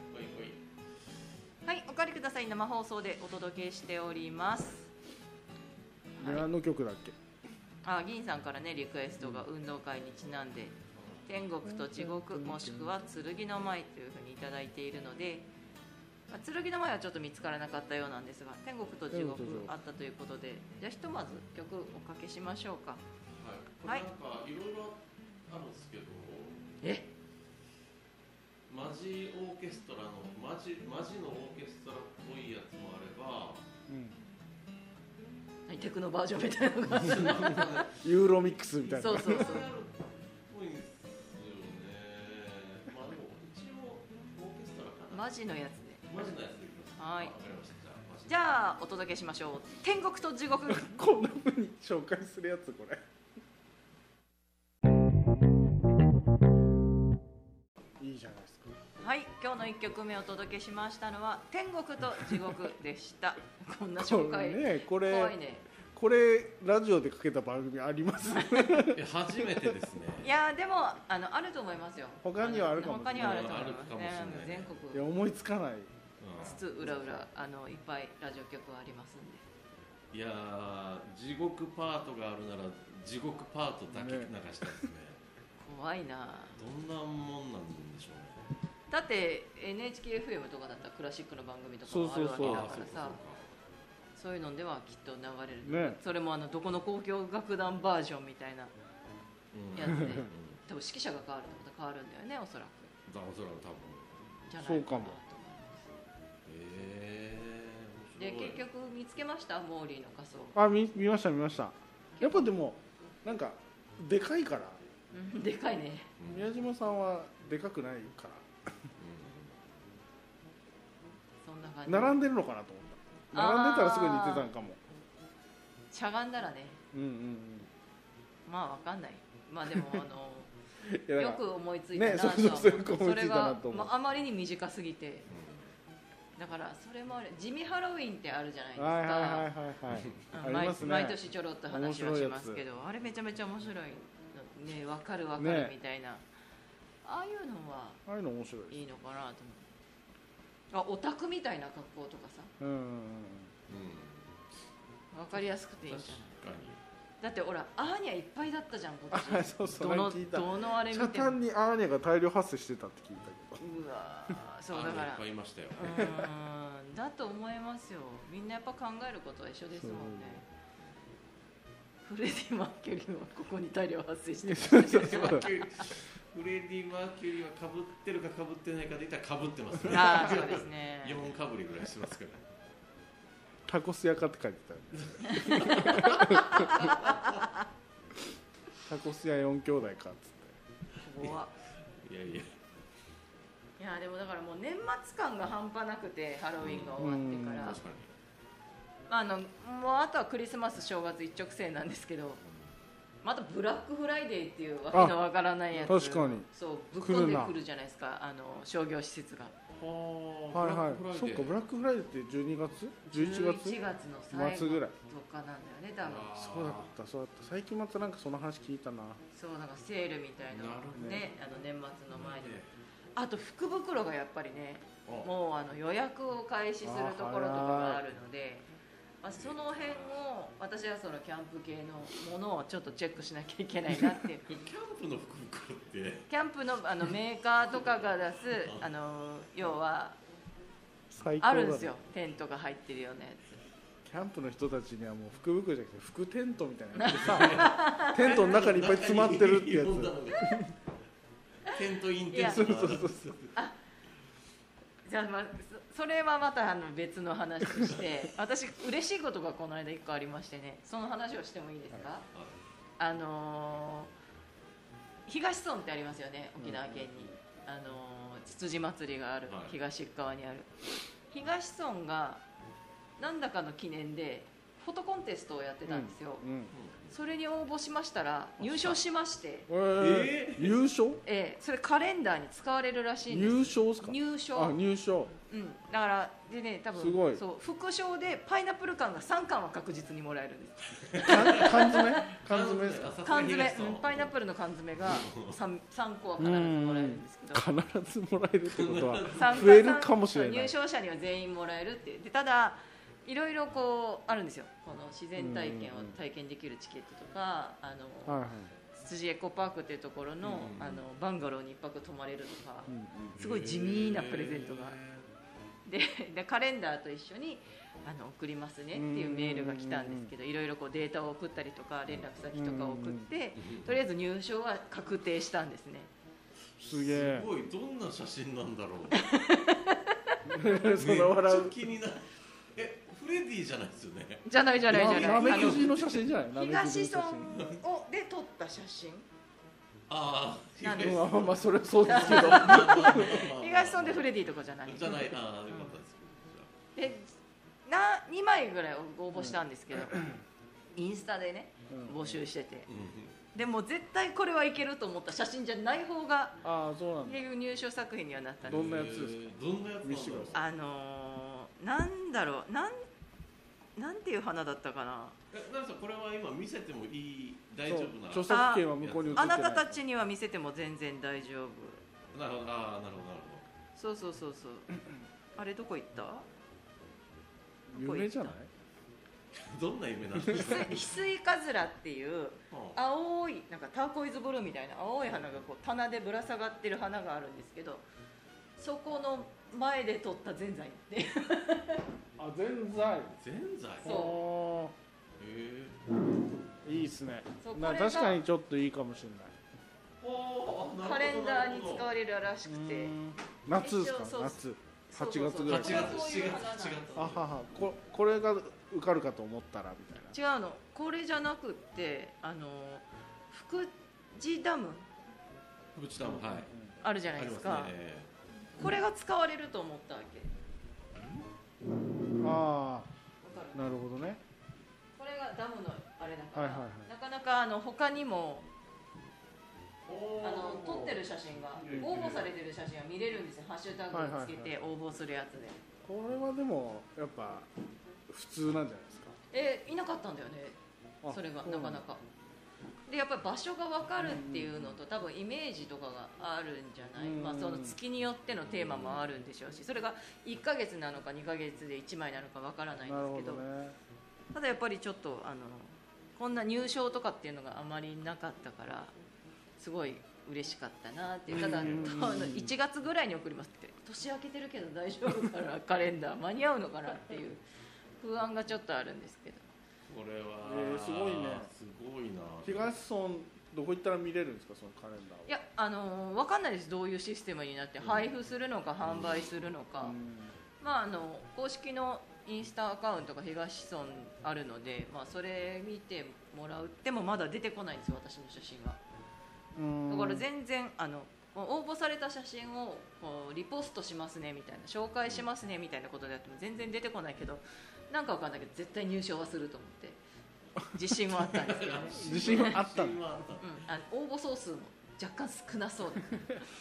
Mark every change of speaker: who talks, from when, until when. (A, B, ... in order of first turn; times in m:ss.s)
0:00.1-0:00.6 A
0:01.6-0:04.9 B
0:06.2-0:06.5 B
0:06.2-0:07.2 C
0:07.8-0:15.5 B
0:09.2-0:09.4 C
0:11.6-0:12.9 C
0:16.3-0:23.0 B
0:19.1-0:19.7 C
0:23.3-0:26.7 A
0:26.8-0:27.1 B
0:28.7-0:33.6 A
0:33.9-0:34.2 C
0:35.7-0:37.8 B
0:36.9-0:45.3 A
0:38.0-0:39.6 C
0:38.9-0:39.7 B
0:45.1-0:46.0 B
0:46.1-0:48.5 A
0:47.0-0:47.3 B
0:48.3-0:50.9 B
0:50.7-0:53.0 C
0:58.0-0:58.7 C
0:59.0-1:05.7 B
1:04.0-1:05.3 C
1:05.8-1:09.7 C
1:08.3-1:08.7 B
1:08.8-1:10.3 A
1:10.2-1:15.0 B
1:12.2-1:13.6 C
1:13.1-1:14.7 A
1:14.9-1:15.9 C
1:16.2-1:16.6 A
1:16.4-1:19.5 B
1:16.8-1:17.1 C
1:20.1-1:25.2 A
1:23.9-1:24.9 C
1:25.6-1:26.6 B
1:26.6-1:28.5 A
1:28.9-1:33.2 B
1:31.8-1:32.8 C
1:32.3-1:33.5 A
1:34.2-1:38.7 B
1:35.6-1:36.0 C
1:39.5-1:40.6 A
1:39.7-1:42.9 B
1:39.9-1:40.2 C
1:43.1-1:44.5 A
1:44.5-1:45.9 B
1:44.6-1:45.2 C
1:46.4-1:48.6 A
1:48.2-1:50.6 B
1:50.5-1:54.8 C
1:52.2-1:52.5 B
1:55.1-1:56.1 B
1:56.2-1:56.5 A
1:56.3-1:58.5 C
1:59.0-1:59.6 A
2:01.4-2:02.2 B
2:01.9-2:04.8 C
2:03.3-2:04.5 B
2:05.9-2:06.8 B
2:06.9-2:07.7 C
2:08.4-2:10.5 B
2:09.7-2:10.0 C
2:10.8-2:11.4 C
2:11.2-2:15.3 B
2:11.9-2:13.9 C
2:15.3-2:15.7 A
2:16.4-2:19.5 B
2:18.8-2:22.6 C
2:19.9-2:20.2 A
2:20.3-2:26.2 B
2:25.4-2:25.7 C
2:27.0-2:28.0 B
2:28.0-2:28.8 C
2:28.7-2:29.7 B
2:30.7-2:32.5 B
2:32.6-2:33.5 C
2:33.7-2:34.4 A
2:35.1-2:36.4 B
2:35.9-2:36.8 A
2:37.2-2:41.4 B
2:39.1-2:43.6 C
2:43.6-2:45.2 B
2:44.7-2:46.2 A
2:45.8-2:50.4 B
2:49.8-2:50.4 C
2:52.0-2:55.6 B
2:54.4-2:55.5 C
2:54.9-3:02.5 A
2:59.9-3:01.2 B
3:03.7-3:06.9 C
3:04.9-3:07.4 A
3:05.2-3:07.2 B
3:08.8-3:10.6 C
3:11.0-3:11.5 B
3:11.2-3:12.6 A
3:13.8-3:17.8 B
3:16.6-3:17.0 A
3:17.0-3:17.8 C
3:17.6-3:18.1 A
3:19.1-3:22.4 B
3:22.4-3:22.7 A
3:23.2-3:29.5 B
3:24.9-3:25.2 C
3:25.7-3:26.5 C
3:27.0-3:27.5 C
3:29.7-3:31.6 A
3:30.5-3:33.8 C
3:33.1-3:36.3 B
3:34.3-3:34.9 C
3:36.0-3:36.9 A
3:36.3-3:39.2 C
3:39.3-3:48.7 B
3:40.5-3:41.3 A
3:40.9-3:41.2 C
3:42.1-3:42.7 A
3:46.8-3:48.0 C
3:49.2-3:54.4 B
3:49.3-3:50.2 A
3:54.4-3:56.3 A
3:56.3-4:00.2 B
3:58.6-3:58.8 A
4:01.1-4:01.9 C
4:01.4-4:03.5 B
4:04.0-4:10.7 C
4:07.0-4:08.4 B
4:07.1-4:10.7 A
4:11.6-4:13.5 A
4:12.3-4:12.7 B
4:12.4-4:13.2 C
4:15.0-4:22.2 B
4:22.3-4:22.6 A
4:23.0-4:24.1 B
4:25.3-4:32.4 B
4:26.6-4:27.3 C
4:29.5-4:29.8 A
4:33.2-4:36.5 B
4:35.9-4:36.7 C
4:36.7-4:37.2 A
4:37.1-4:39.7 B
4:38.6-4:39.0 A
4:39.7-4:41.2 C
4:40.0-4:40.8 A
4:41.2-4:44.8 B
4:43.3-4:45.3 C
4:45.5-4:52.3 B
4:47.0-4:47.4 C
4:51.1-4:54.3 A
4:51.2-4:53.2 C
4:53.2-4:57.6 B
4:55.0-4:55.6 A
4:56.4-5:00.7 C
4:58.6-4:59.8 A
4:59.3-5:15.0 B
5:05.4-5:06.1 C
5:08.2-5:08.7 C
5:10.4-5:11.0 A
5:12.9-5:13.4 C
5:13.4-5:15.3 A
5:15.8-5:26.1 B
5:18.9-5:20.3 C
5:22.5-5:23.3 C
5:23.6-5:24.0 A
5:26.8-5:29.2 A
5:26.9-5:27.5 C
5:29.1-5:30.4 B
5:30.4-5:31.8 C
5:30.8-5:36.1 A
5:34.4-5:39.2 B
5:34.9-5:37.6 C
5:37.5-5:37.8 A
5:40.1-5:46.7 A
5:40.8-5:41.3 B
5:41.0-5:43.4 C
5:42.0-5:46.0 B
5:46.9-5:47.3 B
5:47.8-5:50.2 B
5:49.4-5:50.4 C
5:50.9-5:52.9 B
5:51.9-5:52.3 C
5:52.9-5:53.4 A
5:53.5-5:56.6 B
5:56.6-5:57.4 C
5:57.2-5:59.1 B
5:58.6-6:00.6 A
5:58.7-5:59.4 C
6:00.0-6:00.5 C
6:00.5-6:03.0 B
6:04.0-6:05.4 B
6:05.5-6:09.7 A
6:07.8-6:10.0 C
6:08.5-6:12.0 B
6:12.3-6:13.6 A
6:14.0-6:14.9 B
6:15.6-6:16.4 B
6:17.9-6:18.7 C
6:18.0-6:18.5 B
6:19.5-6:21.2 A
6:20.5-6:28.0 B
6:22.7-6:23.0 A
6:28.8-6:32.0 B
6:32.4-6:33.4 C
6:33.3-6:34.2 A
6:34.0-6:34.9 C
6:34.0-6:34.4 B
6:35.4-6:36.0 A
6:36.8-6:39.6 C
6:37.6-6:38.4 B
6:40.2-6:42.1 A
6:41.0-6:43.2 B
6:42.6-6:46.3 C
6:43.7-6:47.3 B
6:45.6-6:47.4 A
6:47.2-6:50.4 C
6:50.3-6:55.1 B
6:55.9-6:56.7 A
6:56.2-6:56.9 C
6:57.0-6:57.9 B
6:57.4-6:58.3 A
6:58.8-7:00.5 B
7:02.4-7:03.1 C
7:03.4-7:03.9 B
7:03.7-7:04.4 C
7:05.2-7:08.7 B
7:06.5-7:07.1 C
7:10.1-7:11.2 A
7:10.4-7:15.8 B
7:11.8-7:12.5 A
7:11.9-7:12.4 C
7:14.1-7:14.7 C
7:16.0-7:17.7 C
7:18.3-7:19.4 C
7:19.5-7:20.8 B
7:21.2-7:22.0 C
7:21.3-7:22.2 B
7:23.1-7:33.6 B
7:24.2-7:24.9 C
7:27.2-7:28.0 C
7:28.6-7:29.2 A
7:33.1-7:34.0 C
7:34.5-7:39.1 B
7:39.8-7:47.6 B
7:41.5-7:42.3 A
7:41.6-7:42.7 C
7:48.2-7:49.7 B
7:50.1-7:52.9 A
7:50.6-7:51.7 C
7:52.6-7:55.5 C
7:55.4-8:00.2 B
7:58.0-7:58.3 A
7:59.0-7:59.5 A
8:00.0-8:00.5 C
8:00.8-8:09.0 B
8:09.8-8:10.4 C
8:10.1-8:20.2 B
8:20.8-8:22.8 B
8:21.4-8:23.8 A
8:22.1-8:23.2 C
8:23.6-8:26.6 B